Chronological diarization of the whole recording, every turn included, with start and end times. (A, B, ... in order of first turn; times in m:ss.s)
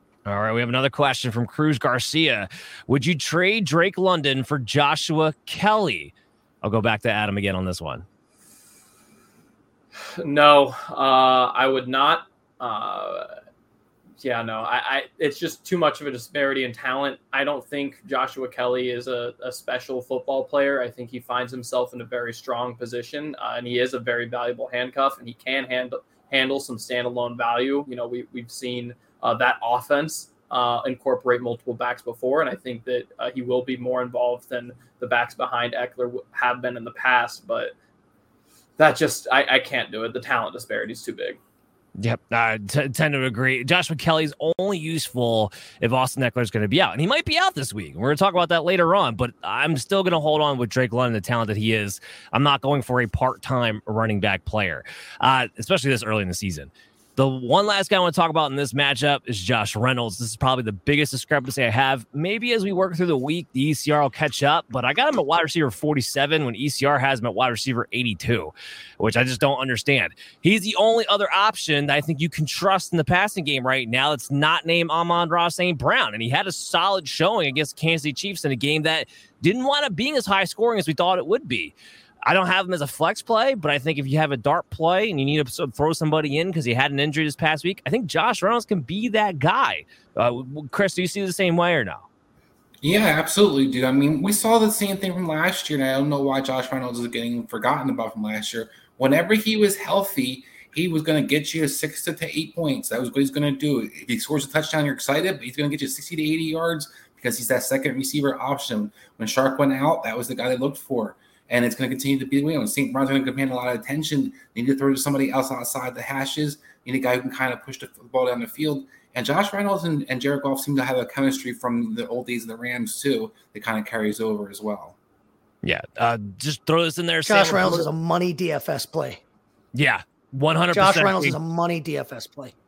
0:00.2-0:08.0 A
0:10.2-0:13.3 B
0:14.2-0:37.7 B
0:38.8-0:41.4 B
0:42.0-1:32.0 A
1:32.8-2:05.0 C
2:05.6-2:07.8 A
2:07.2-2:09.2 D
2:09.7-2:11.4 A
2:10.7-2:12.5 D